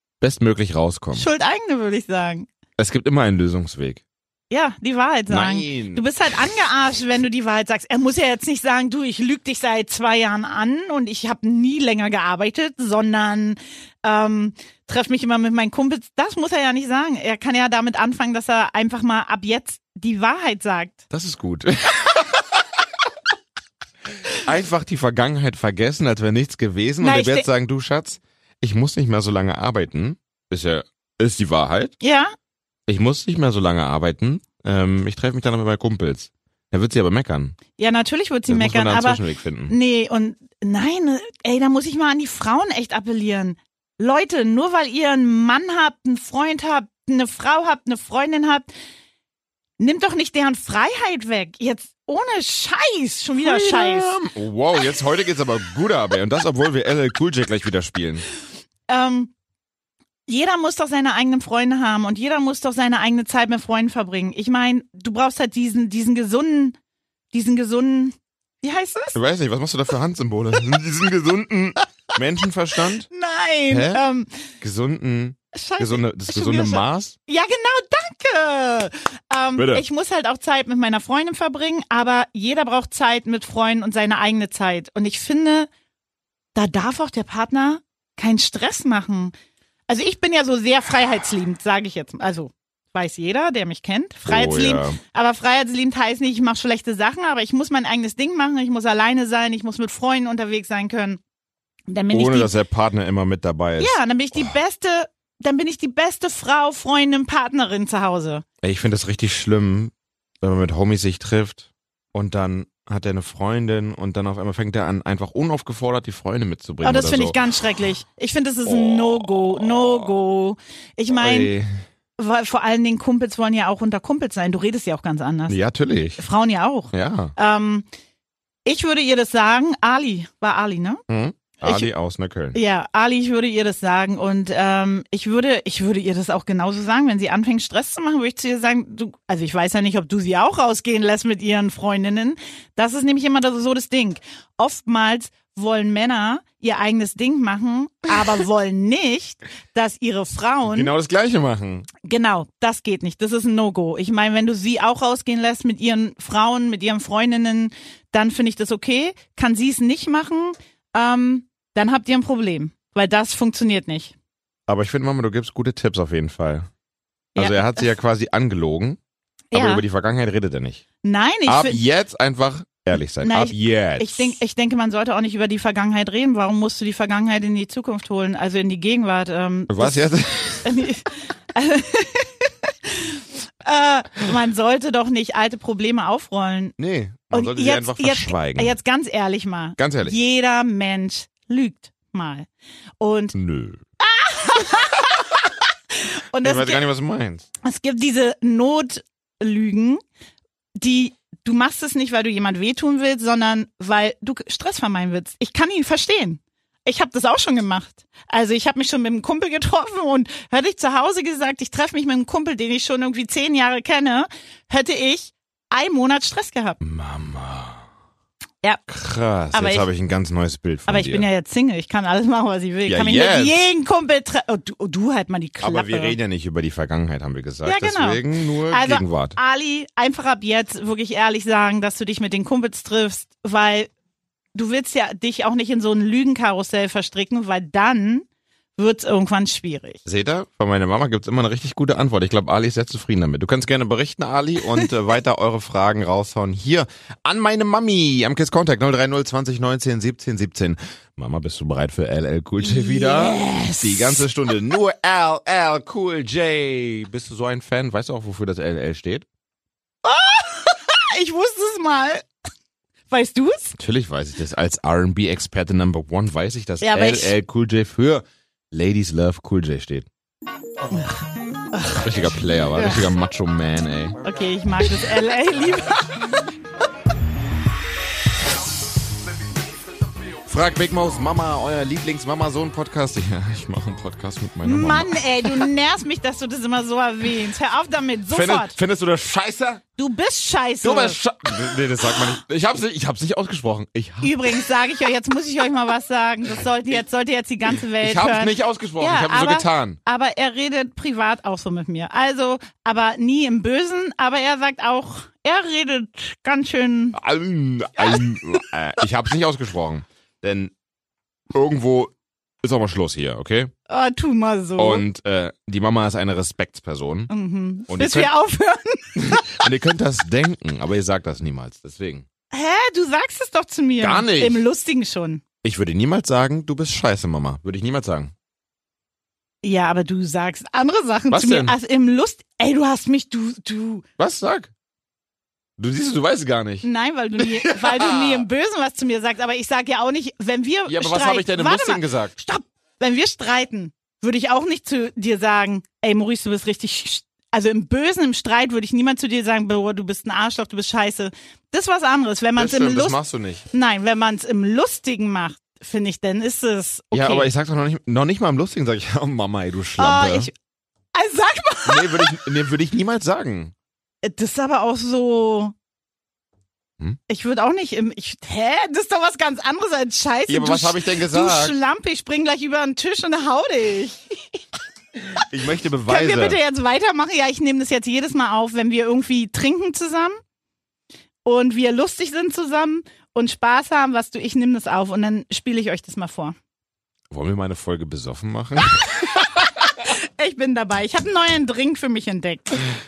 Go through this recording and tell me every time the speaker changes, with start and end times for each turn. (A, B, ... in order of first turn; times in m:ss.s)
0:00.2-0:01.3 A
0:01.1-0:02.5 B
0:02.8-0:04.0 A
0:04.5-0:21.0 B
0:05.3-0:06.0 A
0:21.1-0:22.6 A
0:24.4-0:31.9 A
0:27.0-0:27.5 B
0:32.0-0:32.3 B
0:32.9-0:37.6 A
0:37.8-0:48.7 B
0:38.5-0:39.8 A
0:49.8-0:54.1 B
0:53.4-0:58.2 A
0:58.9-0:59.3 B
1:00.3-1:06.8 B
1:07.3-1:09.2 B
1:09.2-1:13.1 A
1:13.1-1:14.3 B
1:13.7-1:14.0 A
1:14.6-1:17.2 A
1:15.5-1:25.7 B
1:19.6-1:19.8 A
1:26.6-1:29.3 B
1:29.9-1:41.2 B
1:34.3-1:35.0 A
1:41.9-1:42.5 B
1:42.1-1:44.5 A
1:43.8-1:48.4 B
1:48.6-1:57.4 A
1:56.8-2:01.5 B
1:58.7-2:00.1 A
2:01.1-2:01.7 A
2:02.2-2:05.6 B
2:05.5-2:06.2 A
2:06.2-2:07.9 B
2:06.9-2:07.3 A
2:08.7-2:11.0 B
2:11.1-2:12.6 A
2:11.6-2:11.9 B
2:12.5-2:30.9 B
2:30.7-2:31.9 A
2:32.0-2:44.2 B
2:44.7-2:46.7 A
2:47.4-2:47.9 B
2:47.4-2:49.0 A
2:49.5-2:49.8 B
2:49.5-2:50.8 A
2:51.0-2:51.8 B
2:51.5-2:54.4 A
2:53.2-3:00.0 B
2:59.7-3:00.8 A
3:00.6-3:06.8 B
3:06.8-3:08.8 A
3:07.3-3:12.5 B
3:09.8-3:10.2 A
3:13.0-3:13.4 B
3:13.4-3:13.8 A
3:14.0-3:15.4 B
3:16.0-3:16.8 B
3:16.4-3:17.5 A
3:17.6-3:20.0 B
3:20.8-3:36.8 B
3:36.8-3:37.8 A
3:38.9-3:41.3 A
3:39.5-3:39.9 B
3:40.9-3:46.2 B
3:42.9-3:43.7 A
3:45.6-3:49.4 A
3:47.6-3:53.9 B
3:54.6-3:58.3 B
3:58.8-4:00.0 B
4:00.1-4:19.3 A
4:12.6-4:14.3 B
4:20.0-4:22.3 B
4:23.1-4:23.8 B
4:23.8-4:30.1 A
4:26.8-4:27.3 B
4:30.9-4:31.2 B
4:31.7-4:32.1 B
4:32.0-4:34.2 A
4:32.8-4:33.0 B
4:34.2-4:36.3 B
4:40.5-4:45.7 A
4:44.6-4:48.8 B
4:48.3-4:49.8 A
4:50.0-4:51.2 B
4:50.8-4:54.6 A
4:54.2-5:07.2 B
4:58.0-5:00.0 A
5:07.1-5:10.7 A
5:08.0-5:08.4 B
5:11.5-5:13.7 A
5:13.9-5:15.0 B
5:14.8-5:17.3 A
5:17.3-5:19.5 B
5:17.9-5:18.3 A
5:19.2-5:22.3 A
5:22.5-5:25.4 B
5:24.0-5:24.6 A
5:25.6-5:28.3 A
5:29.6-5:34.0 B
5:31.3-5:31.8 A
5:34.2-5:34.7 A
5:35.8-5:36.9 A
5:36.8-5:53.2 B
5:37.4-5:38.5 A
5:40.9-5:42.4 A
5:52.6-5:53.7 A
5:53.7-5:57.5 B
5:57.1-6:00.5 A
6:00.0-6:00.5 B
6:01.1-6:02.4 B
6:01.9-6:03.7 A
6:04.2-6:05.7 B
6:07.3-6:14.6 B
6:10.5-6:11.8 A
6:15.4-6:16.6 A
6:16.1-6:20.4 B
6:21.4-6:26.6 B
6:27.3-6:29.2 A
6:28.9-6:32.9 B